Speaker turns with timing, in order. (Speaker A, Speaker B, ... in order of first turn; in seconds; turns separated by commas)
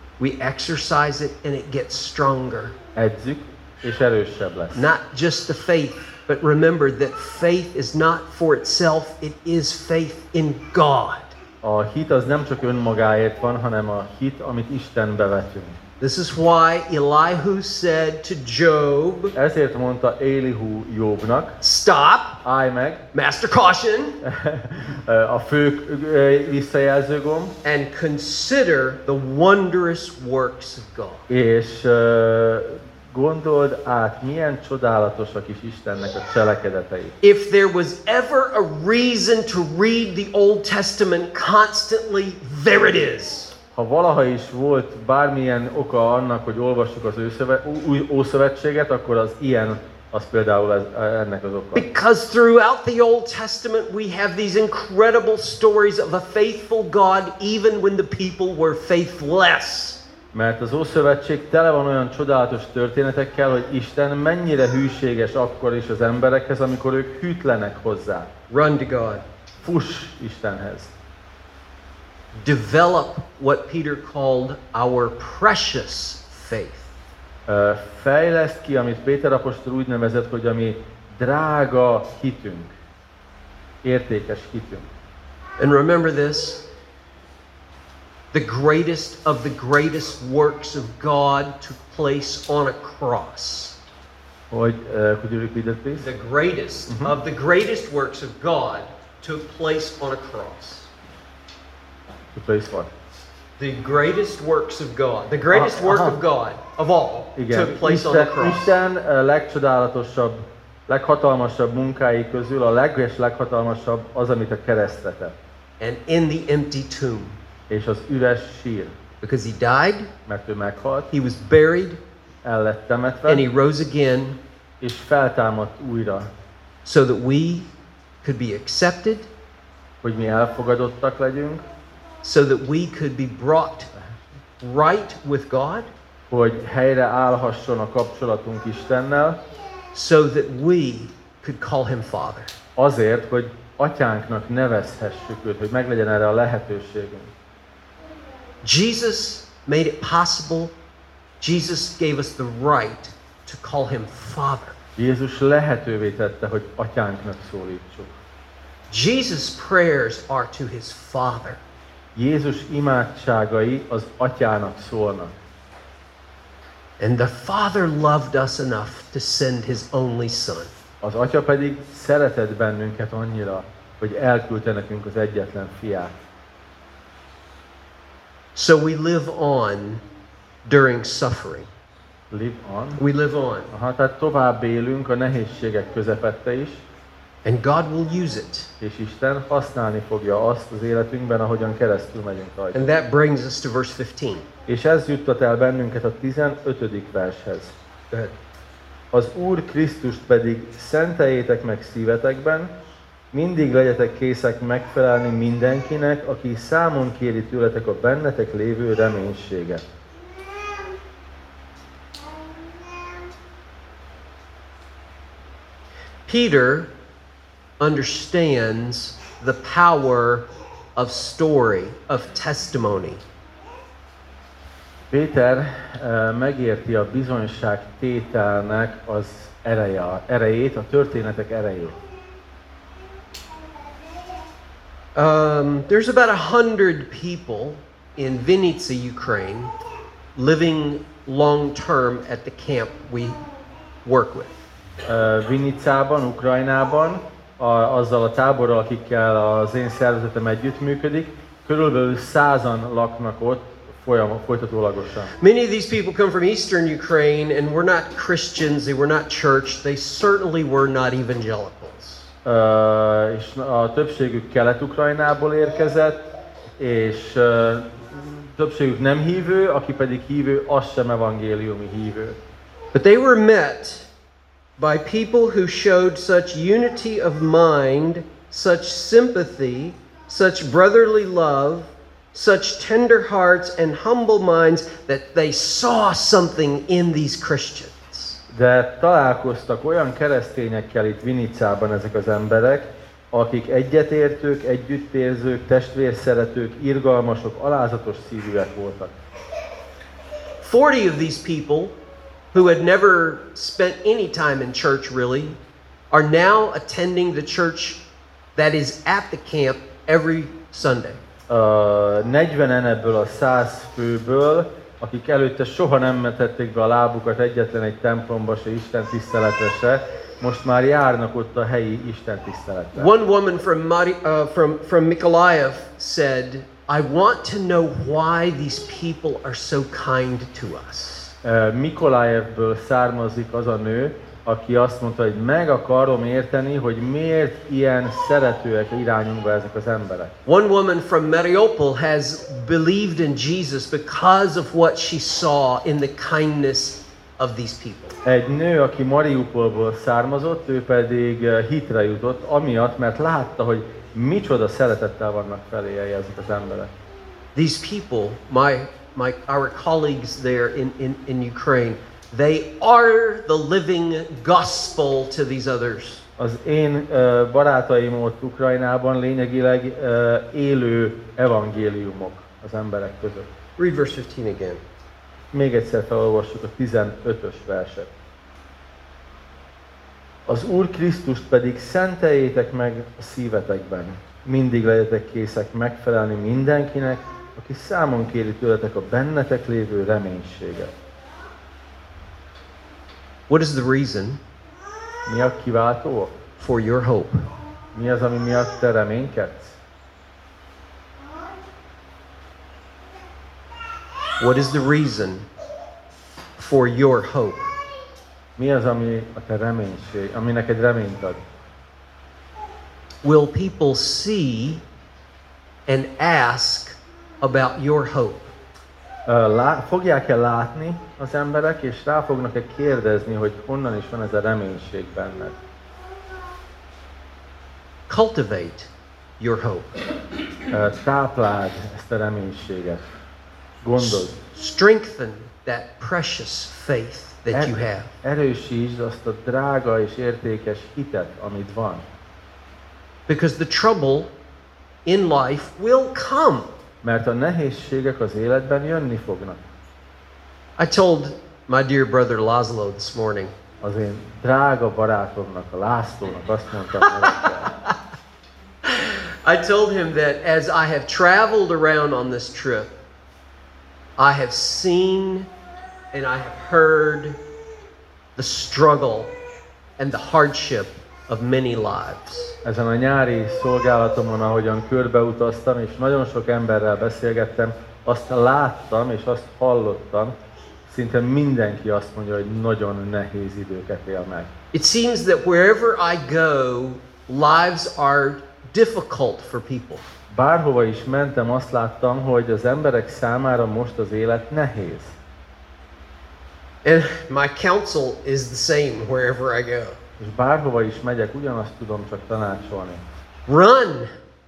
Speaker A: 0.2-2.7, Speaker B: 2.9-4.9, Speaker A: 4.7-11.3, Speaker B: 11.6-15.8, Speaker A: 16.0-19.3, Speaker B: 19.3-21.6, Speaker A: 21.6-22.4, Speaker B: 22.4-23.0, Speaker A: 23.1-24.2, Speaker B: 24.2-27.6, Speaker A: 27.6-31.3, Speaker B: 31.3-37.1, Speaker A: 37.2-43.5, Speaker B: 43.7-51.9, Speaker A: 51.7-60.0, Speaker B: 60.3-68.3, Speaker A: 68.5-69.2, Speaker B: 69.6-70.9, Speaker A: 72.3-76.9, Speaker B: 77.5-82.7, Speaker B: 83.8-84.8, Speaker A: 85.6-86.6, Speaker A: 88.3-93.8, Speaker B: 94.5-96.1, Speaker A: 96.0-100.9, Speaker B: 96.9-97.1, Speaker B: 102.3-102.9, Speaker A: 103.6-108.7, Speaker B: 105.5-106.2, Speaker B: 107.3-115.3, Speaker A: 115.8-117.3, Speaker B: 117.7-118.9, Speaker A: 119.2-120.1, Speaker B: 120.2-121.1, Speaker A: 121.1-122.0, Speaker B: 122.4-123.5, Speaker A: 123.3-124.4, Speaker B: 124.8-126.3, Speaker A: 126.8-127.7, Speaker A: 128.2-129.3, Speaker B: 130.0-131.6, Speaker A: 132.2-133.9, Speaker A: 134.6-135.9, Speaker B: 136.3-139.4, Speaker A: 139.9-142.5, Speaker B: 142.8-147.3, Speaker A: 148.6-150.7, Speaker A: 151.4-154.8, Speaker B: 155.0-158.1, Speaker A: 158.9-161.6, Speaker B: 162.2-165.3, Speaker A: 167.0-170.7, Speaker B: 171.0-176.1, Speaker A: 178.5-180.0, Speaker A: 180.7-181.7, Speaker B: 182.3-183.0, Speaker A: 183.0-183.7, Speaker B: 183.7-186.8, Speaker A: 187.4-188.7, Speaker B: 188.8-192.8, Speaker A: 192.7-194.4, Speaker B: 194.7-197.7, Speaker B: 199.1-202.7, Speaker B: 203.3-209.8, Speaker A: 216.3-216.9, Speaker A: 217.8-223.2, Speaker B: 225.1-232.0, Speaker A: 235.2-239.7, Speaker A: 240.3-243.4, Speaker A: 244.0-244.5, Speaker B: 245.1-255.3, Speaker A: 255.4-262.3, Speaker B: 262.4-266.2, Speaker B: 266.8-272.4, Speaker A: 272.9-274.1, Speaker A: 274.8-288.4, Speaker B: 288.5-299.1, Speaker A: 300.6-301.9, Speaker A: 302.5-305.6, Speaker A: 306.1-308.0, Speaker A: 308.6-311.2, Speaker B: 311.5-323.1, Speaker A: 322.9-331.3, Speaker B: 331.4-340.3, Speaker A: 340.4-348.1, Speaker B: 348.2-356.9, Speaker A: 357.5-366.2, Speaker B: 366.4-373.5, Speaker A: 373.8-374.8, Speaker B: 375.5-378.1, Speaker B: 380.5-390.9, Speaker A: 393.5-394.4, Speaker B: 395.2-396.3, Speaker A: 396.6-397.4, Speaker B: 397.9-399.8, Speaker A: 404.4-405.5, Speaker A: 406.6-407.7, Speaker B: 408.6-411.4, Speaker A: 413.2-414.8, Speaker A: 415.9-418.5, Speaker B: 419.3-425.6, Speaker A: 428.1-430.0, Speaker B: 430.7-433.0, Speaker B: 433.8-434.4, Speaker A: 434.0-438.1, Speaker B: 437.5-442.0, Speaker A: 443.3-444.3, Speaker A: 445.1-446.7, Speaker B: 447.0-449.6, Speaker A: 450.8-453.5, Speaker B: 453.8-457.7, Speaker A: 457.2-457.9, Speaker A: 458.8-462.9, Speaker A: 464.2-465.5, Speaker A: 466.1-467.4, Speaker A: 468.4-469.3, Speaker A: 470.0-472.6, Speaker B: 472.6-480.3, Speaker B: 480.9-484.5, Speaker A: 484.7-490.0, Speaker B: 490.3-495.1, Speaker A: 496.8-500.0, Speaker B: 500.2-503.0, Speaker A: 503.5-504.1